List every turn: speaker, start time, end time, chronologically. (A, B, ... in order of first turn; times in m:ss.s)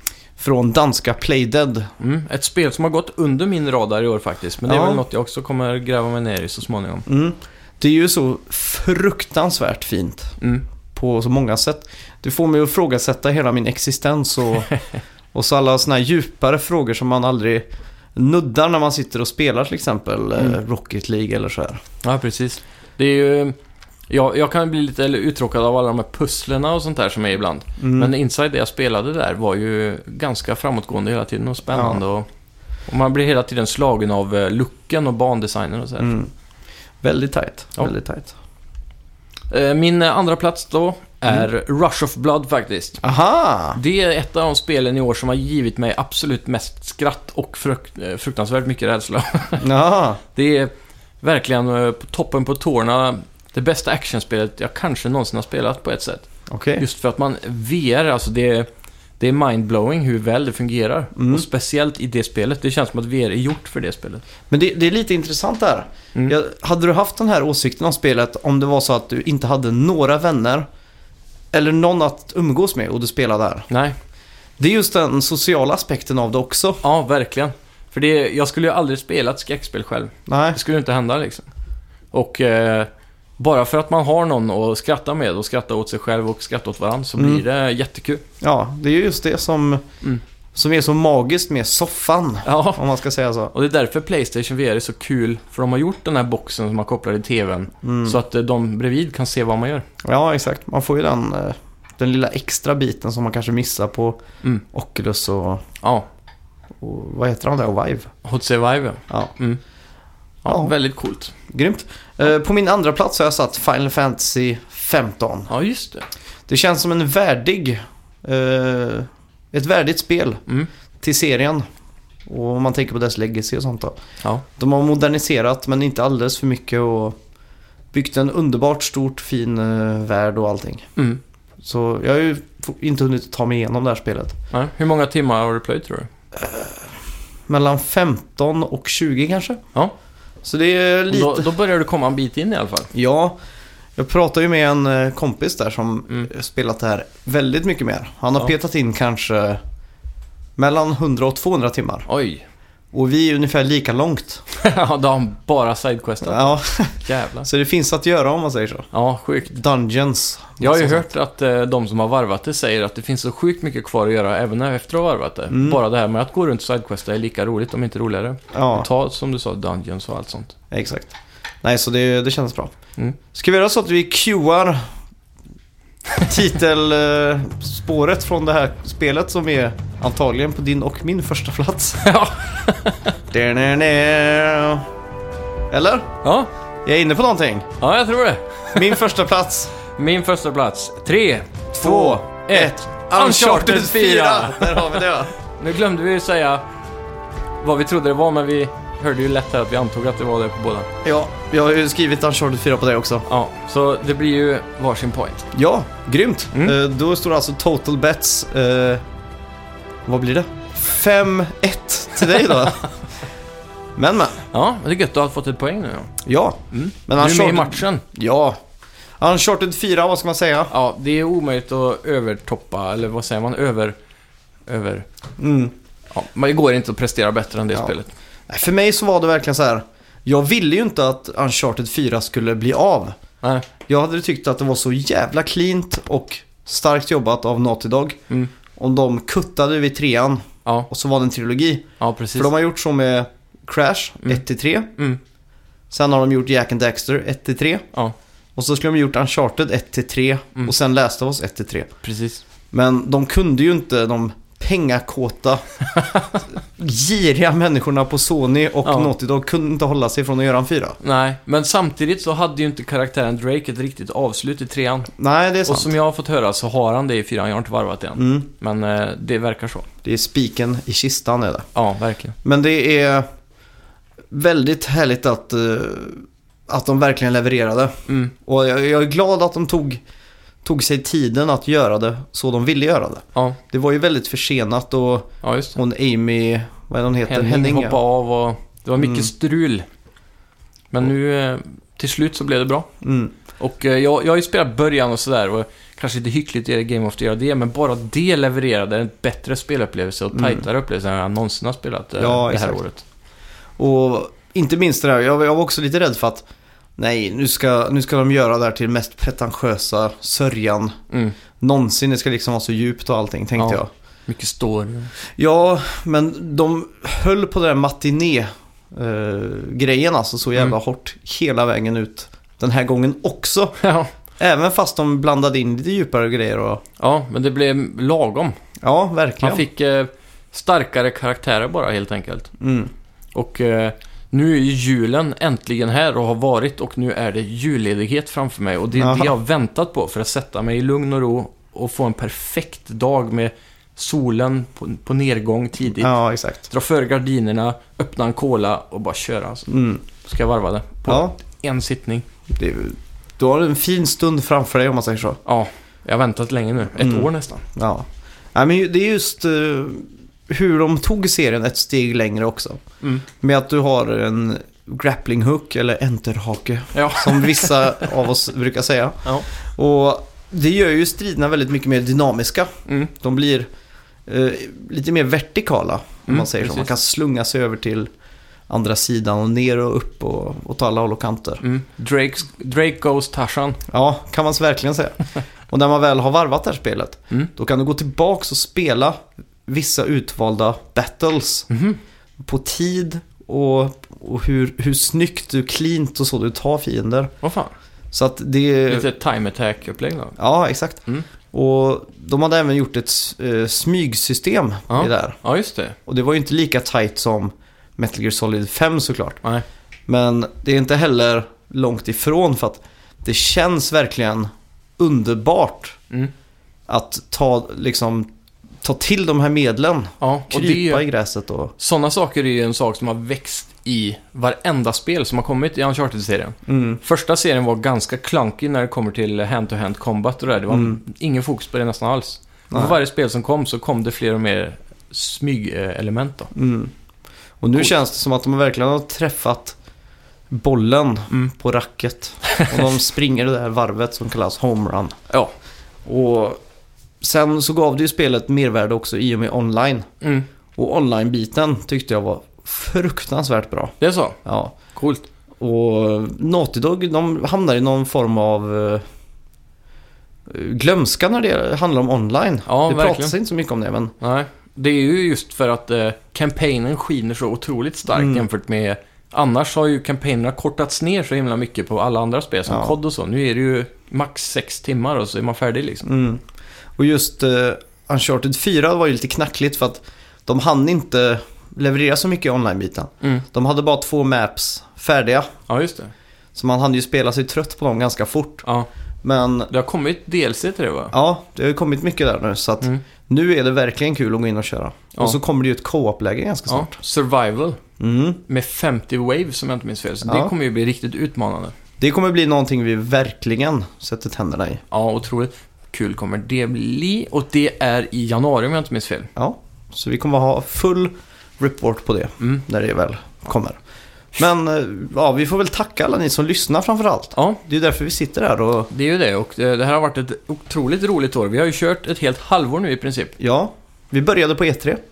0:00.4-0:01.9 A
0:02.0-0:07.0 B
0:04.6-0:05.0 A
0:07.1-0:10.3 A
0:10.9-0:14.7 A
0:15.3-0:21.8 A
0:22.0-0:23.6 B
0:24.1-0:32.3 B
0:27.8-0:28.1 A
0:31.7-0:32.0 A
0:32.9-0:36.1 B
0:36.0-0:36.3 A
0:37.0-0:38.3 A
0:39.5-0:43.0 B
0:43.0-0:43.8 A
0:43.7-0:49.7 B
0:49.6-0:50.2 A
0:50.3-0:56.3 B
0:56.5-0:56.8 A
0:56.8-0:58.7 B
0:59.2-1:04.2 B
1:01.2-1:01.4 A
1:04.5-1:10.7 A
1:11.5-1:13.7 A
1:13.7-1:14.0 B
1:14.6-1:16.8 A
1:16.8-1:21.5 B
1:20.3-1:20.6 A
1:22.1-1:28.2 B
1:27.2-1:27.4 A
1:28.4-1:29.8 A
1:30.5-1:33.5 A
1:32.4-1:32.8 B
1:33.5-1:39.8 B
1:37.8-1:38.2 A
1:40.0-1:44.2 A
1:44.7-1:45.6 A
1:46.8-1:48.1 A
1:48.2-1:49.6 B
1:50.4-1:51.3 B
1:50.4-1:50.7 A
1:51.5-1:55.5 A
1:55.5-1:56.1 B
1:56.5-2:00.4 A
2:01.0-2:01.7 A
2:02.3-2:04.0 A
2:04.6-2:07.2 A
2:07.9-2:10.9 A
2:11.6-2:14.4 A
2:14.5-2:16.1 B
2:16.3-2:16.9 A
2:17.5-2:19.6 A
2:20.4-2:21.5 A
2:21.1-2:22.9 B
2:22.9-2:23.4 A
2:24.0-2:29.6 A
2:30.6-2:32.1 A
2:32.1-2:32.4 B
2:32.9-2:34.4 A
2:34.6-2:37.5 B
2:36.2-2:38.9 A
2:38.9-2:39.5 B
2:39.5-2:41.1 A
2:40.6-2:50.6 B
2:45.5-2:45.8 A
2:48.5-2:48.9 A
2:50.7-2:52.7 A
2:53.3-2:54.8 A
2:56.2-3:02.1 A
3:02.0-3:03.1 B
3:03.3-3:04.8 A
3:05.7-3:06.1 A
3:06.2-3:06.5 B
3:06.8-3:07.7 A
3:07.8-3:09.0 B
3:08.7-3:09.7 A
3:09.9-3:15.0 B
3:11.7-3:15.3 A
3:15.6-3:16.6 B
3:17.6-3:20.9 B
3:21.0-3:23.2 A
3:23.3-3:25.5 B
3:25.5-3:29.0 A
3:30.0-3:32.8 A
3:34.0-3:34.4 A
3:34.5-3:36.1 B
3:36.2-3:38.6 A
3:36.7-3:38.0 B
3:39.2-3:40.7 A
3:40.7-3:44.0 B
3:44.7-3:45.1 B
3:45.4-3:45.7 A
3:46.1-3:48.1 B
3:48.5-3:53.2 A
3:53.4-3:53.7 B
3:53.8-3:58.2 A
3:58.8-4:04.9 A
4:02.0-4:02.5 B
4:05.9-4:07.8 A
4:08.6-4:11.9 A
4:12.0-4:12.4 B
4:12.7-4:15.6 A
4:15.9-4:16.3 B
4:16.6-4:21.0 A
4:18.8-4:19.1 B
4:21.0-4:25.1 B
4:25.2-4:25.9 A
4:25.6-4:29.9 B
4:28.2-4:28.5 A
4:30.0-4:31.7 A
4:31.7-4:32.4 B
4:32.4-4:33.3 A
4:34.3-4:40.0 A
4:38.1-4:38.3 B
4:40.6-4:48.0 A
4:45.4-4:45.8 B
4:47.3-4:49.8 B
4:49.0-4:49.3 A
4:50.9-4:52.9 B
4:53.0-4:53.3 A
4:53.6-5:03.0 B
5:00.3-5:00.6 A
5:02.2-5:02.8 A
5:03.8-5:06.4 A
5:07.0-5:11.0 A
5:11.6-5:13.9 A
5:13.6-5:15.1 B
5:15.4-5:23.8 A
5:23.8-5:24.1 B
5:24.4-5:26.8 A
5:27.0-5:28.6 B
5:28.8-5:29.7 A
5:29.4-5:32.5 B
5:32.6-5:32.9 A
5:33.3-5:46.1 B
5:38.9-5:39.3 A
5:45.9-5:46.6 A
5:46.7-5:52.2 B
5:49.7-5:50.0 A
5:51.1-5:51.4 A
5:52.5-5:55.4 A
5:55.4-5:57.6 B
5:57.0-6:13.7 A
6:06.9-6:08.1 B
6:14.2-6:18.1 A
6:16.3-6:16.9 B
6:18.7-6:21.6 A
6:21.6-6:23.8 B
6:23.9-6:31.7 A
6:31.7-6:32.0 B
6:32.4-6:37.3 A
6:37.4-6:37.7 B
6:38.1-6:39.1 A
6:38.9-6:40.4 B
6:40.4-6:45.4 A
6:44.9-6:46.0 B
6:46.0-6:49.4 A
6:50.1-6:56.0 A
6:56.9-6:58.3 A
6:58.8-7:01.7 A
7:00.2-7:01.0 B
7:01.8-7:16.5 B
7:06.7-7:07.0 A
7:10.7-7:11.0 A
7:12.7-7:13.0 A
7:16.5-7:16.9 A
7:17.6-7:19.8 A
7:20.5-7:25.2 A
7:22.5-7:22.8 B
7:26.0-7:26.6 A
7:27.2-7:30.1 A
7:30.2-7:30.5 B
7:30.8-7:34.8 A
7:34.0-7:34.4 B
7:34.9-7:35.2 B
7:35.6-7:39.0 A
7:40.5-7:44.1 A
7:42.7-7:43.3 B
7:44.2-7:56.1 B
7:48.1-7:48.4 A
7:52.7-7:53.0 A
7:56.0-7:56.4 A
7:57.0-8:05.5 A
8:05.7-8:06.1 B
8:06.5-8:08.6 A
8:09.2-8:09.7 A
8:09.7-8:11.1 B
8:11.1-8:17.0 A
8:16.7-8:17.8 B
8:18.0-8:18.4 A
8:18.5-8:21.8 B
8:20.2-8:20.5 A
8:22.0-8:24.8 A
8:24.9-8:29.3 B
8:29.4-8:33.8 A
8:34.3-8:38.9 A
8:38.9-8:43.4 B
8:43.4-8:45.0 A